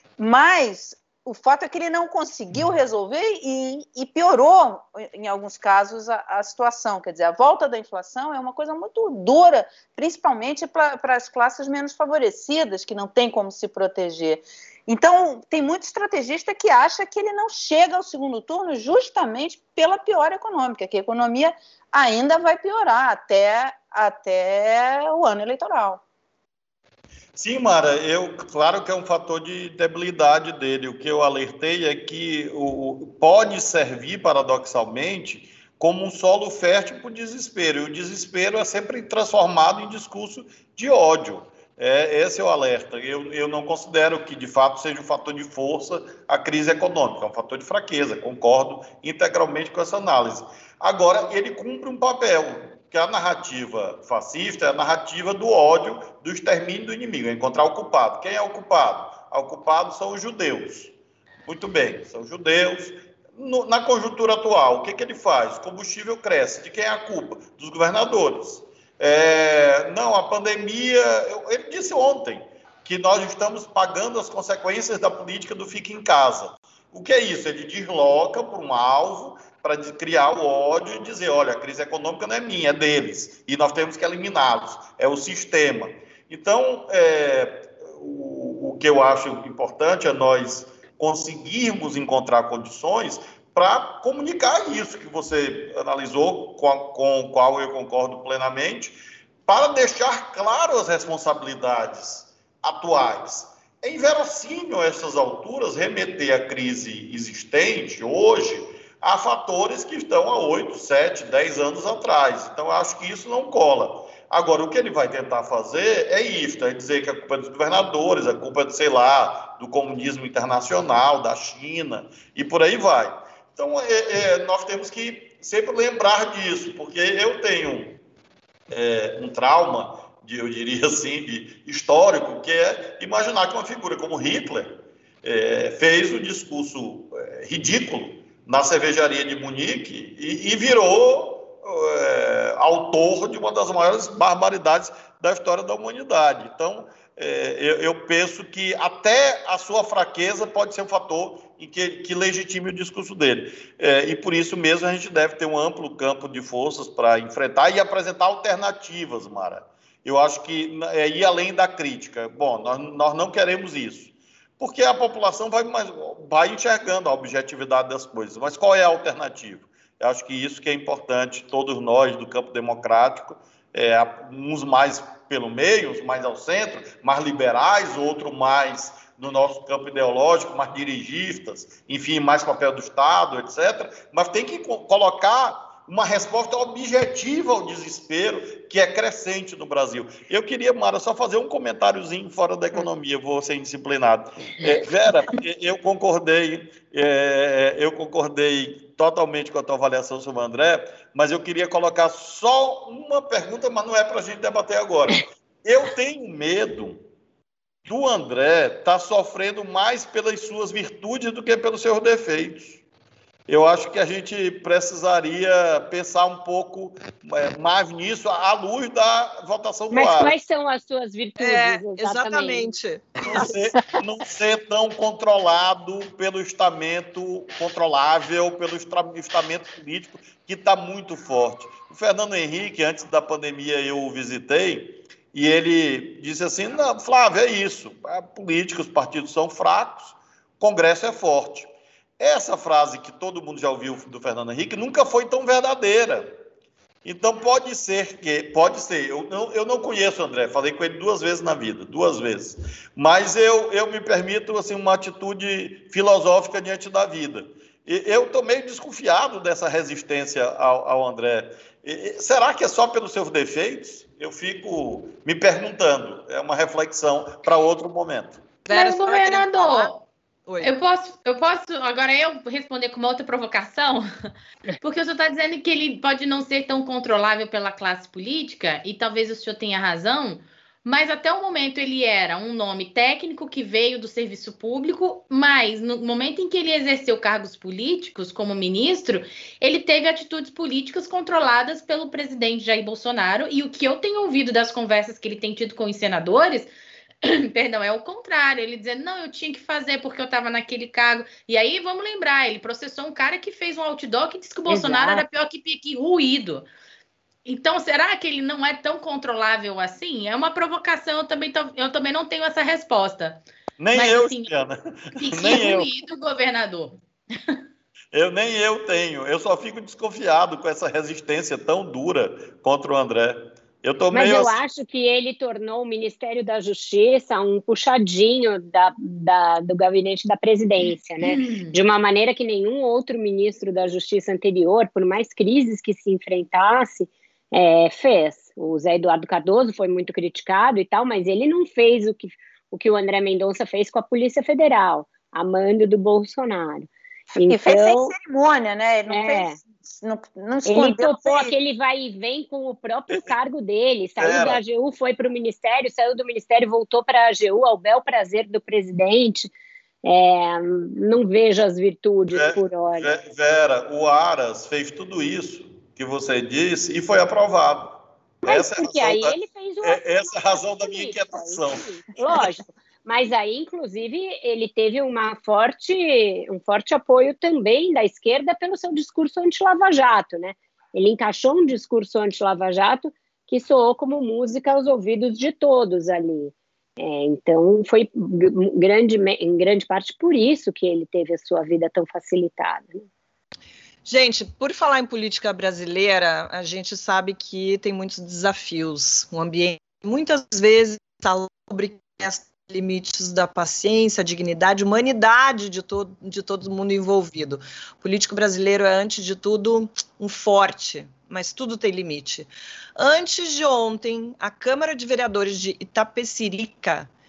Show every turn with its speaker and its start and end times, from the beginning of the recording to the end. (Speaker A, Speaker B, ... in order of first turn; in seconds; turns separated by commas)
Speaker A: 0.2-26.0, Speaker B: 27.4-60.9, Speaker B: 61.5-128.0, Speaker B: 128.7-207.0, Speaker B: 207.9-212.8, Speaker B: 213.5-220.3, Speaker C: 219.9-222.7, Speaker D: 221.4-223.5, Speaker B: 223.2-246.3, Speaker C: 223.3-223.8, Speaker B: 247.0-268.5, Speaker D: 268.7-269.9, Speaker E: 268.7-270.1, Speaker D: 270.5-270.7, Speaker E: 270.6-274.1, Speaker E: 274.8-296.7, Speaker E: 297.2-306.7, Speaker C: 304.7-305.3, Speaker E: 307.4-314.5, Speaker B: 313.8-315.9, Speaker E: 315.2-317.6, Speaker B: 318.1-324.6, Speaker C: 324.1-348.1, Speaker E: 331.2-331.8, Speaker A: 347.5-351.5, Speaker C: 349.1-349.6, Speaker C: 350.7-359.5, Speaker B: 354.2-354.6, Speaker C: 360.0-363.1, Speaker B: 362.3-372.5, Speaker C: 368.4-393.1, Speaker D: 394.1-417.1